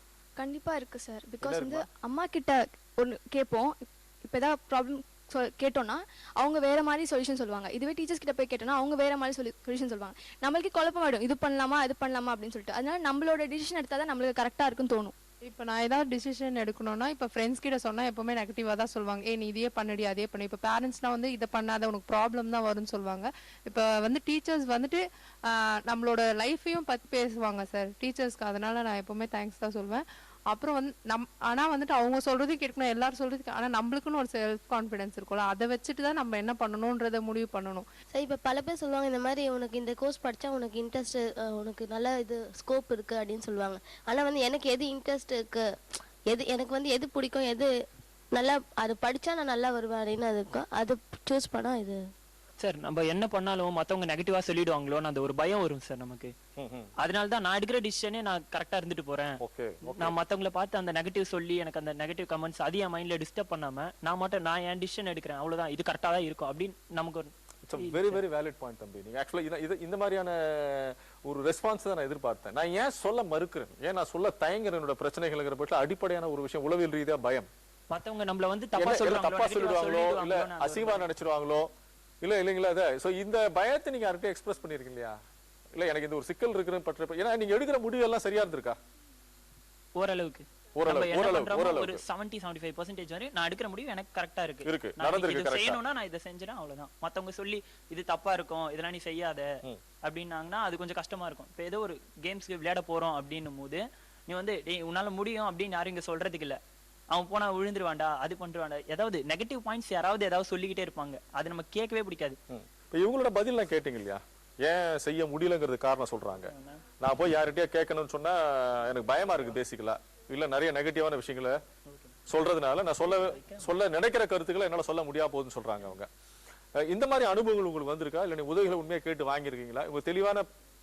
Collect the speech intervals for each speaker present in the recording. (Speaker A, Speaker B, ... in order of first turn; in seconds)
Speaker A: 0.4-15.1
Speaker B: 1.4-1.8, 56.6-56.9, 59.4-60.1, 67.7-77.5, 78.8-81.7, 82.2-85.2, 85.8-88.8, 90.8-92.0, 94.7-95.8, 112.5-121.6, 122.3-126.1, 126.8-130.5
Speaker C: 15.5-37.9
Speaker D: 38.1-45.7, 46.3-47.7, 48.4-52.0
Speaker E: 52.6-56.3, 57.0-68.2, 77.9-81.1, 90.0-99.5, 100.0-106.6, 107.1-112.4, 116.5-116.8, 121.9-122.2, 123.0-123.7